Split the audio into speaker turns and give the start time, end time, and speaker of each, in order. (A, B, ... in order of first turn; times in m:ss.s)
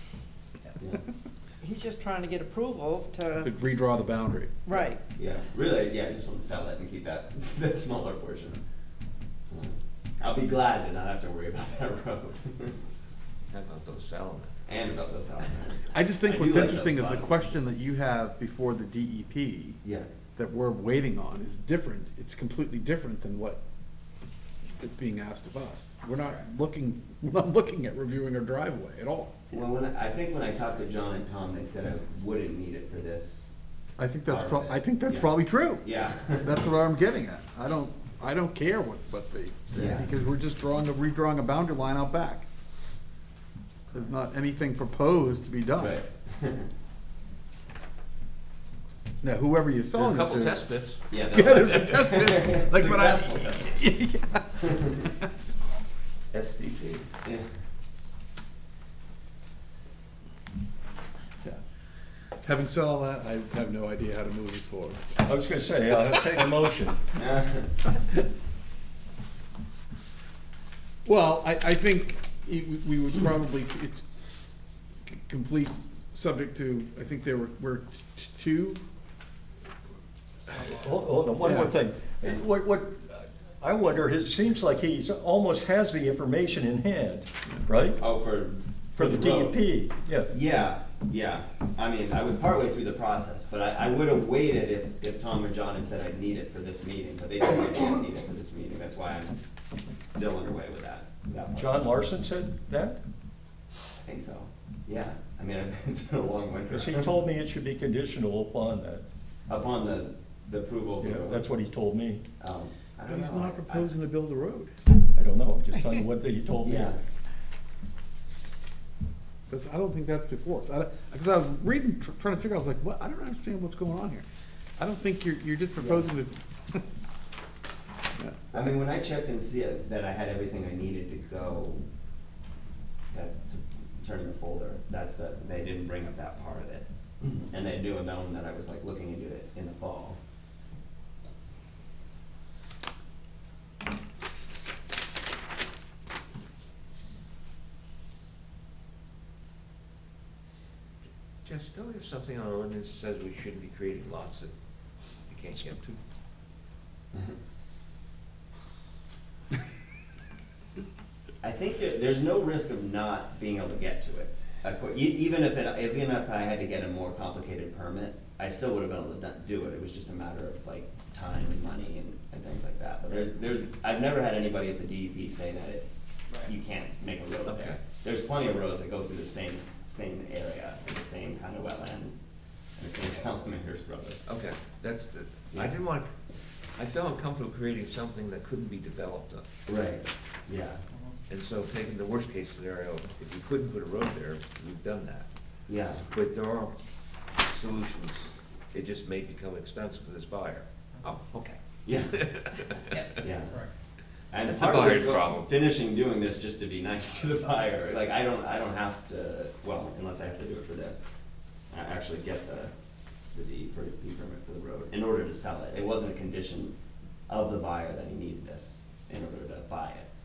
0:01.6-0:03.6 A
0:03.4-0:04.7 B
0:04.7-0:05.0 A
0:05.2-0:08.6 C
0:09.5-0:12.8 C
0:13.5-0:14.5 D
0:14.7-0:17.5 C
0:15.9-0:19.8 B
0:20.4-0:23.6 B
0:24.8-0:29.3 B
0:29.5-0:33.5 C
0:34.0-0:35.8 B
0:34.3-0:36.5 C
0:36.4-0:42.4 B
0:39.7-0:40.1 C
0:43.9-0:46.0 B
0:45.8-0:46.7 C
0:49.2-0:50.6 B
0:49.9-0:51.0 D
0:51.1-0:53.9 C
0:51.3-0:55.1 B
0:54.6-0:55.0 C
0:56.3-0:57.2 D
1:02.4-1:05.1 B
1:05.2-1:07.0 E
1:07.2-1:07.7 C
1:11.0-1:14.0 B
1:15.1-1:18.8 B
1:20.5-1:28.0 E
1:21.4-1:21.7 B
1:28.0-1:29.6 C
1:29.0-1:30.3 E
1:30.3-1:39.4 C
1:40.1-1:42.0 C
1:41.6-1:43.0 E
1:44.0-1:47.1 C
1:46.7-1:49.0 E
1:49.5-1:51.4 C
1:51.0-1:52.2 E
1:52.4-1:53.9 C
1:53.1-1:54.7 B
1:55.1-1:56.9 E
1:56.6-1:57.0 C
1:59.5-2:04.2 B
2:04.8-2:06.8 B
2:05.8-2:06.1 C
2:08.2-2:08.5 B
2:08.5-2:11.8 C
2:13.1-2:20.2 C
2:31.4-2:34.5 D
2:35.3-2:36.0 D
2:41.4-3:02.2 C
2:57.4-2:57.8 D
3:02.8-3:04.2 C
3:04.2-3:06.1 D
3:06.8-3:09.4 D
3:09.7-3:10.8 C
3:11.3-3:15.3 D
3:15.7-3:16.1 C
3:16.1-3:16.7 D
3:17.4-3:21.6 D
3:21.8-3:22.2 C
3:22.1-3:23.1 D
3:23.2-3:23.6 C
3:24.3-3:31.0 C
3:24.4-3:25.5 D
3:31.7-3:32.7 C
3:33.3-3:36.7 C
3:37.3-3:40.1 C